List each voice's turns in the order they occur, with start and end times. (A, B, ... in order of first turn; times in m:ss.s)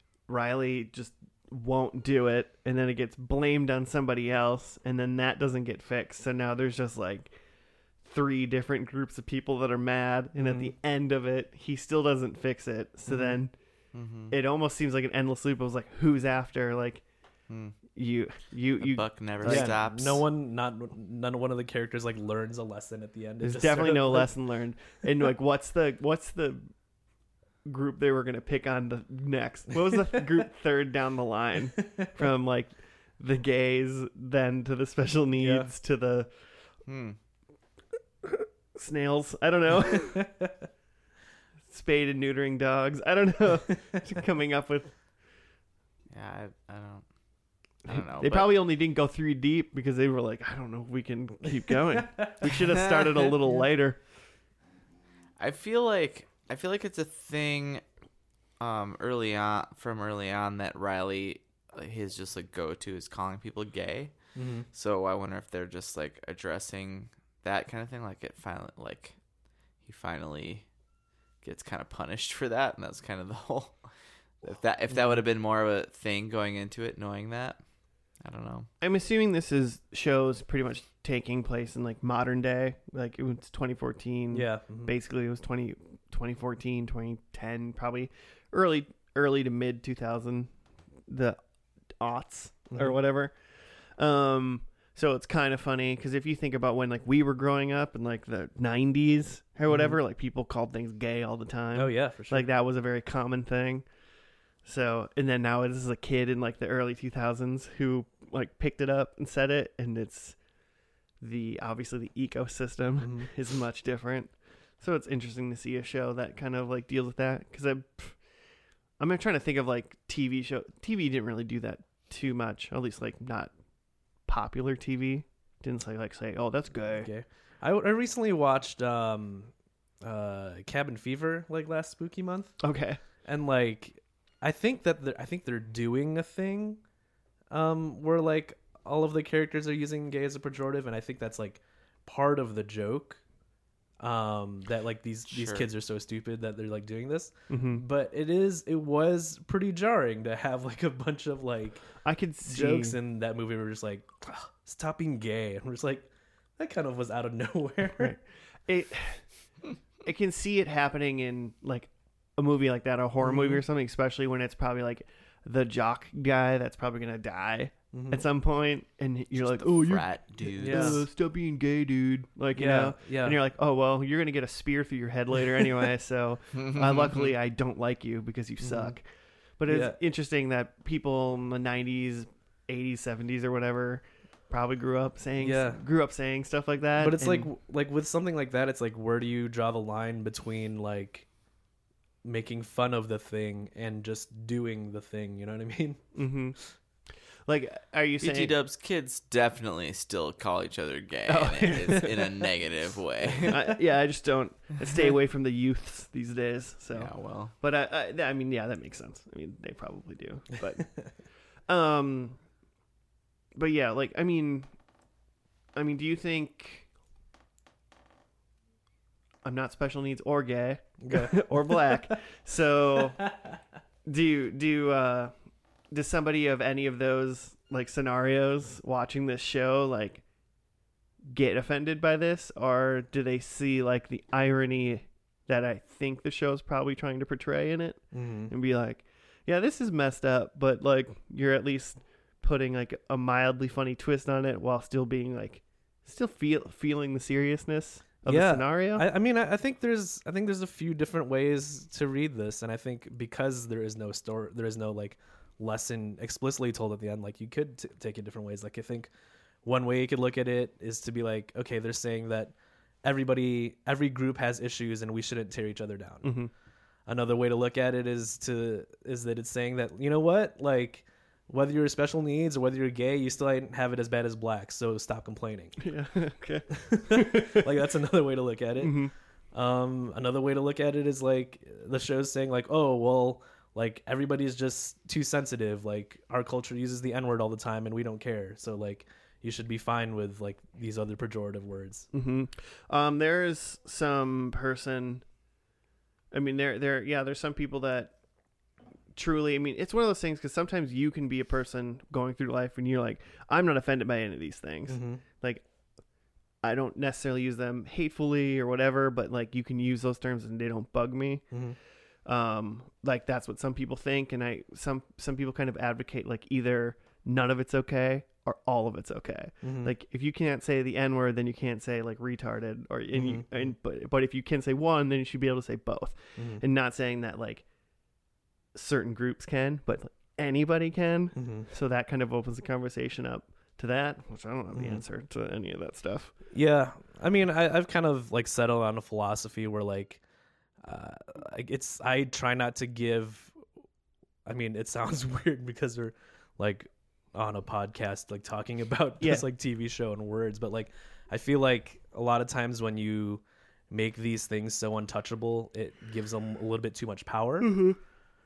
0:00.3-0:07.3 A
0:08.0-0:13.5 A
0:13.9-0:14.3 B
0:14.3-0:17.0 A
0:17.5-0:17.8 B
0:17.9-0:19.7 A
0:18.8-0:20.2 B
0:19.4-0:24.3 C
0:23.4-0:26.7 A
0:27.6-0:36.3 A
0:31.8-0:32.1 C
0:35.4-0:35.7 C
0:36.9-0:37.2 B
0:38.2-0:40.3 A
0:40.1-0:40.6 C
0:41.7-0:44.9 A
0:46.1-0:47.0 B
0:47.8-0:48.5 B
0:47.9-0:54.0 A
0:52.7-0:53.3 B
0:55.4-0:57.8 B
0:58.6-1:04.1 B
1:04.3-1:04.7 C
1:04.7-1:09.1 B
1:09.8-1:10.6 B
1:11.4-1:13.8 B
1:14.4-1:17.6 B
1:18.2-1:18.7 B
1:18.8-1:30.5 A
1:24.3-1:24.9 C
1:31.1-1:31.4 A
1:32.0-1:33.4 A
1:34.0-1:43.8 A
1:39.7-1:40.0 C
1:41.7-1:42.4 C
1:44.6-1:50.4 A
1:51.2-1:58.2 A
1:53.0-1:53.3 C
1:59.0-2:03.5 A
2:04.3-2:07.1 A
2:06.9-2:12.6 C
2:12.6-2:13.0 A
2:13.2-2:16.8 C
2:17.5-2:23.2 C
2:24.0-2:31.9 C
2:25.3-2:25.7 B
2:27.5-2:27.8 A
2:32.0-2:33.0 A
2:32.4-2:38.2 C
2:37.9-2:39.2 A
2:40.0-2:59.0 A
2:43.2-2:43.5 C
2:47.9-2:48.2 C
2:49.4-2:51.0 B
2:50.6-2:51.0 C
2:52.5-2:53.4 C
2:56.5-2:57.3 B
2:59.6-3:07.5 A
2:59.7-3:00.0 C
3:05.4-3:05.8 C
3:07.0-3:11.2 C
3:12.2-3:16.0 C
3:16.1-3:16.6 A
3:17.4-3:18.5 A
3:18.2-3:23.7 B
3:21.3-3:22.5 A
3:23.4-3:30.9 A
3:26.9-3:27.5 B
3:31.7-3:32.4 A
3:33.5-3:34.7 A
3:35.7-3:36.9 A
3:39.4-3:43.2 A
3:41.0-3:42.1 C
3:44.0-3:45.3 A
3:45.9-3:50.2 A
3:51.2-4:09.0 A
3:58.1-3:58.5 C
4:08.3-4:19.1 C
4:19.6-4:22.5 C
4:23.0-4:26.3 C
4:26.2-4:26.5 A
4:27.1-4:35.8 C
4:35.8-4:37.6 A
4:36.7-4:52.1 C
4:38.8-4:39.1 A
4:52.1-4:55.2 A
4:56.3-4:58.1 A
4:59.1-5:05.6 A
5:04.9-5:05.2 C
5:06.6-5:11.5 A
5:11.5-5:11.8 C
5:12.2-5:27.6 A
5:19.6-5:19.9 C
5:23.1-5:23.4 C
5:26.4-5:26.6 C
5:28.7-5:36.3 A
5:31.3-5:31.7 C
5:34.7-5:35.0 C
5:36.5-5:40.2 C
5:40.8-5:43.6 C
5:44.4-5:57.9 C
5:57.6-5:58.0 A